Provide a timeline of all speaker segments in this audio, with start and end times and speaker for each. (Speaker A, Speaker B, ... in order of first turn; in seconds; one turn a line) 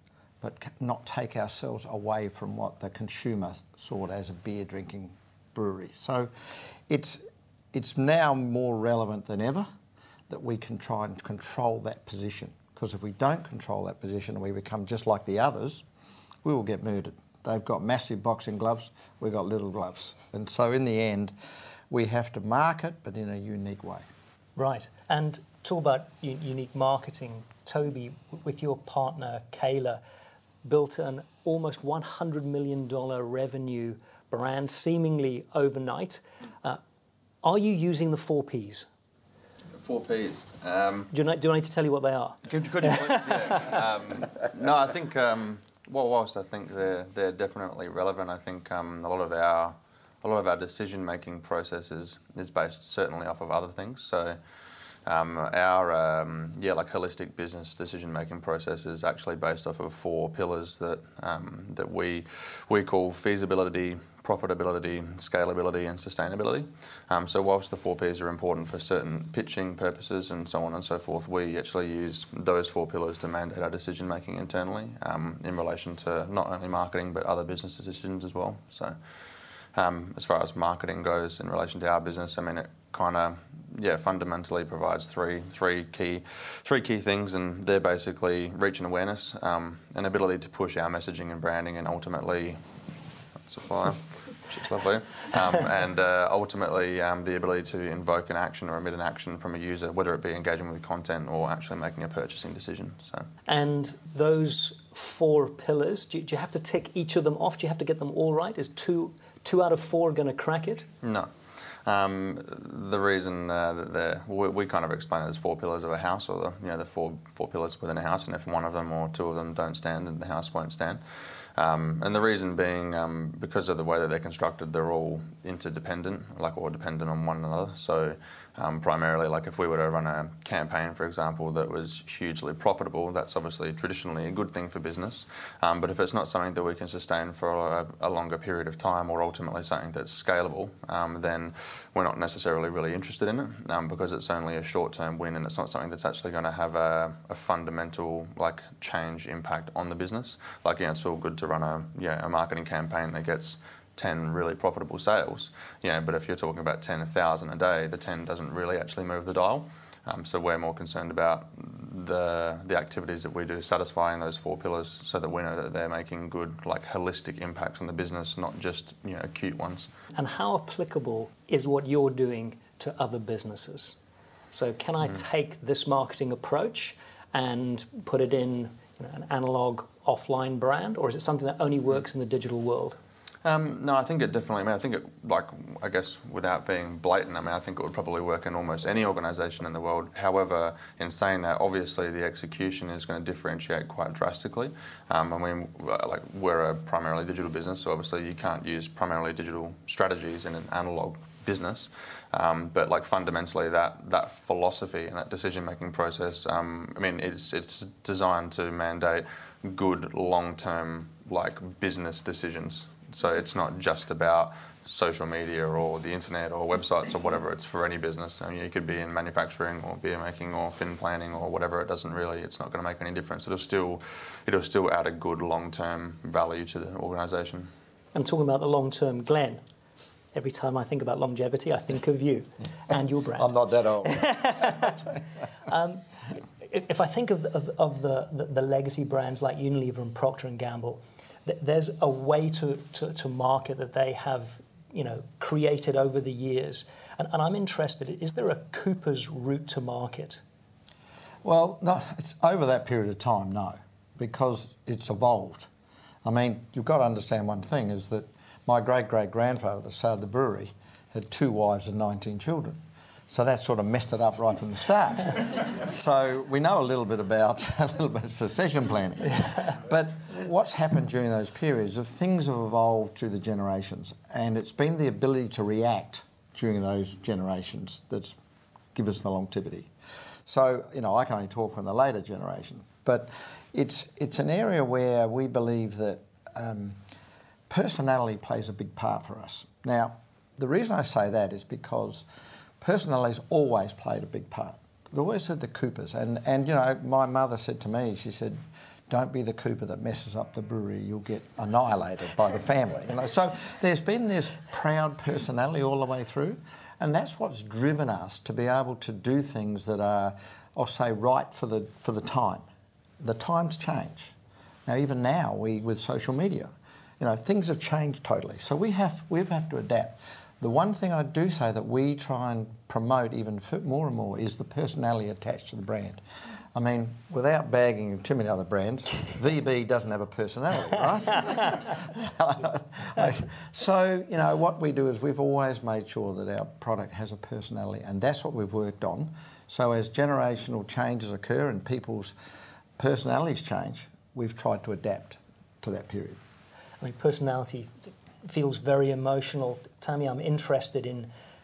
Speaker A: 0.4-6.3
Speaker A: 6.9-7.2
Speaker A: 7.7-9.7
Speaker A: 10.3-15.8
Speaker A: 16.4-21.3
Speaker A: 21.9-24.1
Speaker B: 24.6-30.0
Speaker B: 30.6-36.8
Speaker B: 37.4-38.9
Speaker C: 39.8-41.1
Speaker B: 41.1-43.8
Speaker C: 42.5-54.4
Speaker C: 55.0-79.0
Speaker C: 79.7-92.6
Speaker C: 93.4-103.3
Speaker B: 103.5-110.9
Speaker C: 111.0-111.3
Speaker C: 111.8-121.0
Speaker C: 121.5-169.9
Speaker B: 170.1-174.0
Speaker B: 174.5-183.0
Speaker C: 183.4-227.7
Speaker B: 228.1-229.6
Speaker B: 230.3-233.5
Speaker A: 233.4-234.9
Speaker B: 234.0-235.0
Speaker B: 235.7-236.0
Speaker B: 236.6-250.4
Speaker A: 251.4-255.7
Speaker A: 256.2-262.8
Speaker A: 263.3-278.4
Speaker A: 278.9-279.9
Speaker A: 280.4-287.0
Speaker A: 287.7-292.2
Speaker A: 292.8-312.7
Speaker A: 313.2-314.3
Speaker A: 314.9-326.2
Speaker A: 326.7-342.3
Speaker A: 343.0-346.4
Speaker B: 347.0-351.3